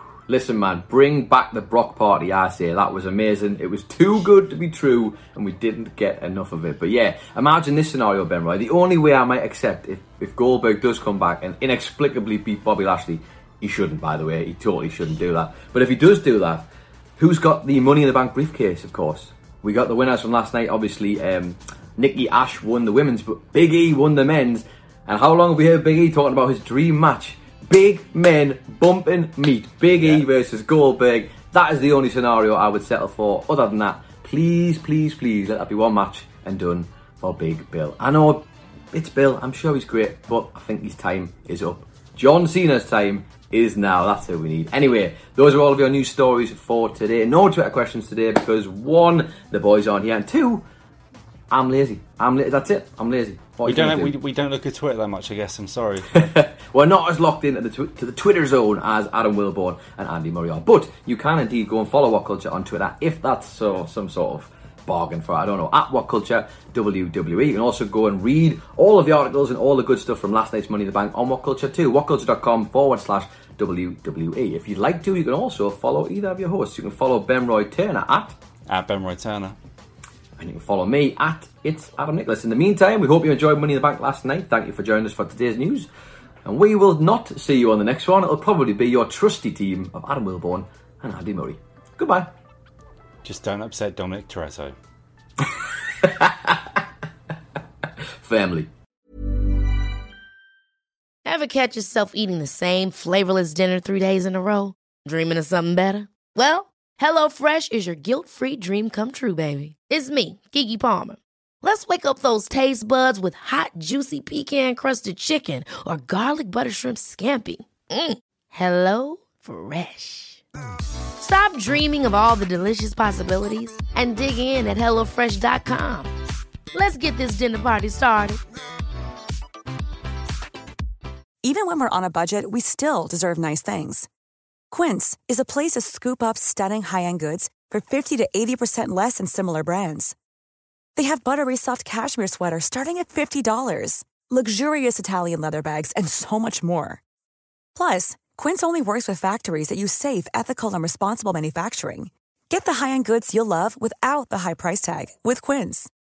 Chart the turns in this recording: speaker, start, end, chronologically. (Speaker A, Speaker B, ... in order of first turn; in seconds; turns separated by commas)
Speaker A: 0.3-16.7, Speaker A: 17.2-50.6, Speaker B: 30.0-30.2, Speaker A: 51.5-54.1, Speaker B: 53.6-56.3, Speaker A: 56.1-78.3, Speaker B: 78.7-79.5, Speaker A: 80.4-85.9, Speaker A: 86.4-92.3, Speaker B: 93.2-94.7, Speaker A: 96.0-96.6, Speaker A: 98.2-98.7, Speaker C: 101.2-120.4, Speaker C: 121.2-126.1, Speaker C: 126.7-128.4, Speaker D: 131.4-134.1, Speaker D: 134.7-140.1, Speaker D: 140.9-147.0, Speaker D: 147.7-155.9